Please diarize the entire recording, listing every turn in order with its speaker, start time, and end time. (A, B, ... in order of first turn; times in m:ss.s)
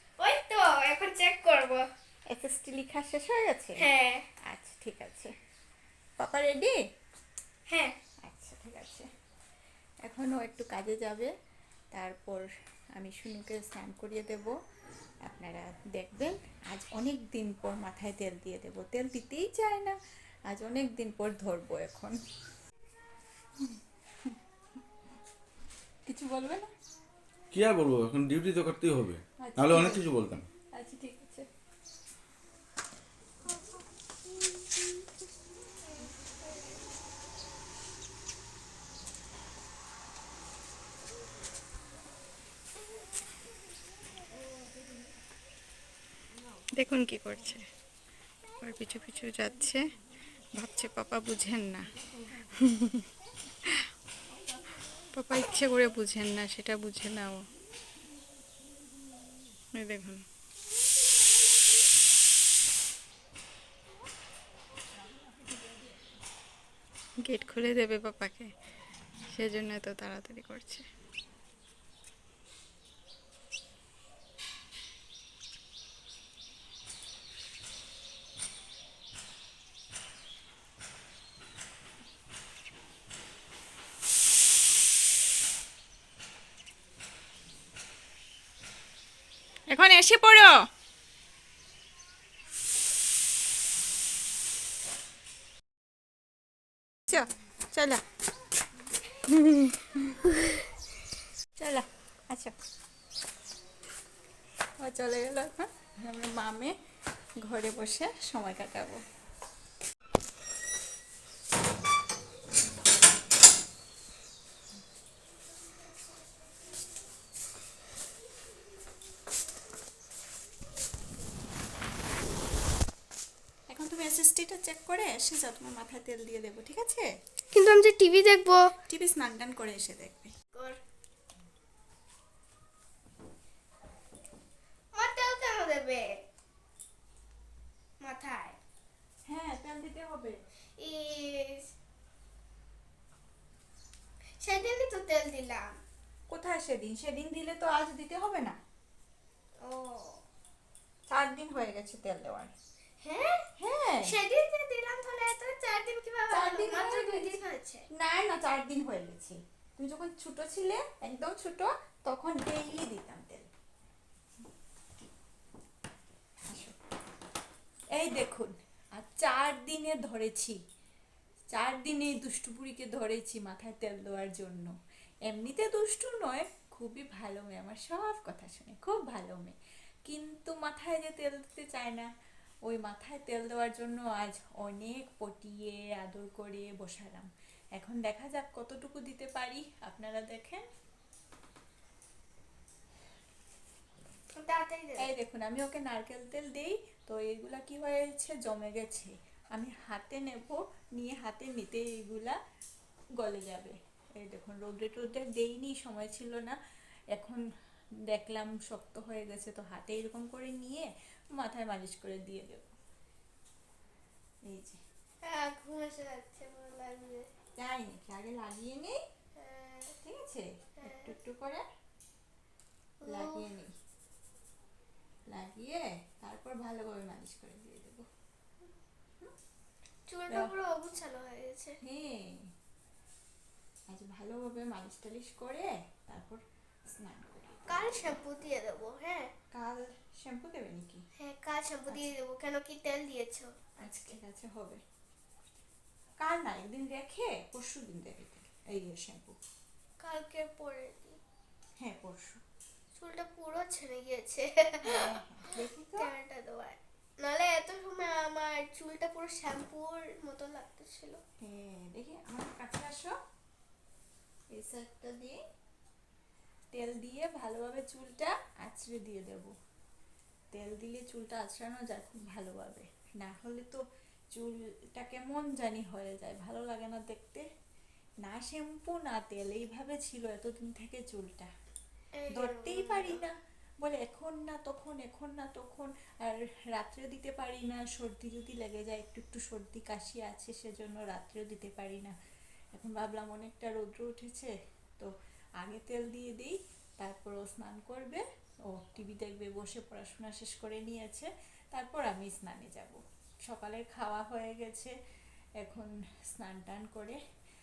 0:00.2-0:01.9 A
0:02.3-0:03.8 B
0:03.8-0:04.3 A
0:04.4-0:05.3 B
0:06.2-0:06.7 B
0:07.7-0:07.9 A
0:08.2-0:09.1 B
0:10.0-0:11.3 B
0:11.9-0:12.4 B
0:13.0-0:14.5 B
0:15.2-0:20.0 B
0:20.5-0:22.2 B
0:23.6-0:24.4 B
0:26.0-0:26.7 B
0:27.5-0:30.4 C
0:29.4-0:31.5 B
0:46.8-0:47.6 B
0:48.6-0:49.8 B
0:50.5-0:53.1 B
0:55.1-0:57.4 B
0:59.7-1:00.2 B
1:07.2-1:08.5 B
1:09.3-1:10.8 B
1:29.7-1:30.7 B
1:37.1-1:38.0 B
1:39.2-1:40.2 B
1:41.6-1:42.5 B
1:44.8-1:46.7 B
1:47.4-1:49.0 B
2:03.7-2:07.1 B
2:07.5-2:08.7 A
2:08.9-2:10.3 B
2:10.5-2:10.8 A
2:14.9-2:16.1 A
2:18.0-2:18.6 A
2:19.2-2:20.4 B
2:20.8-2:21.7 A
2:24.4-2:25.7 A
2:26.3-2:28.6 B
2:29.6-2:30.2 A
2:31.1-2:32.5 B
2:33.0-2:33.4 A
2:33.6-2:34.2 B
2:34.0-2:37.9 A
2:36.3-2:37.4 B
2:37.9-2:43.5 B
2:46.5-2:46.8 B
2:47.9-2:50.6 B
2:51.5-2:54.7 B
2:55.3-3:02.1 B
3:02.6-3:10.6 B
3:14.4-3:15.1 A
3:15.0-3:22.4 B
3:23.2-3:26.6 B
3:27.1-3:27.4 B
3:28.1-3:32.6 B
3:34.4-3:34.8 B
3:35.2-3:37.2 A
3:37.6-3:39.0 B
3:39.4-3:39.9 A
3:40.0-3:41.6 B
3:40.8-3:41.2 A
3:43.0-3:43.5 A
3:43.0-3:43.7 B
3:45.3-3:48.1 B
3:50.1-3:51.8 A
3:50.3-3:50.5 B
3:51.8-3:52.5 B
3:53.9-3:57.9 B
3:57.7-3:59.3 A
3:59.5-4:01.0 B
4:01.2-4:04.2 A
4:01.9-4:02.1 B
4:03.8-4:04.8 B
4:06.2-4:09.4 B
4:10.0-4:11.2 A
4:11.8-4:12.4 B
4:13.0-4:21.2 A
4:14.8-4:16.1 B
4:21.4-4:23.1 B
4:24.5-4:25.4 B
4:26.7-4:29.5 B
4:30.5-4:33.8 B
4:34.3-4:37.4 B
4:38.2-4:41.5 B
4:42.1-4:43.2 A
4:42.3-4:52.1 B
4:52.7-5:04.9 B
5:05.6-5:07.2 B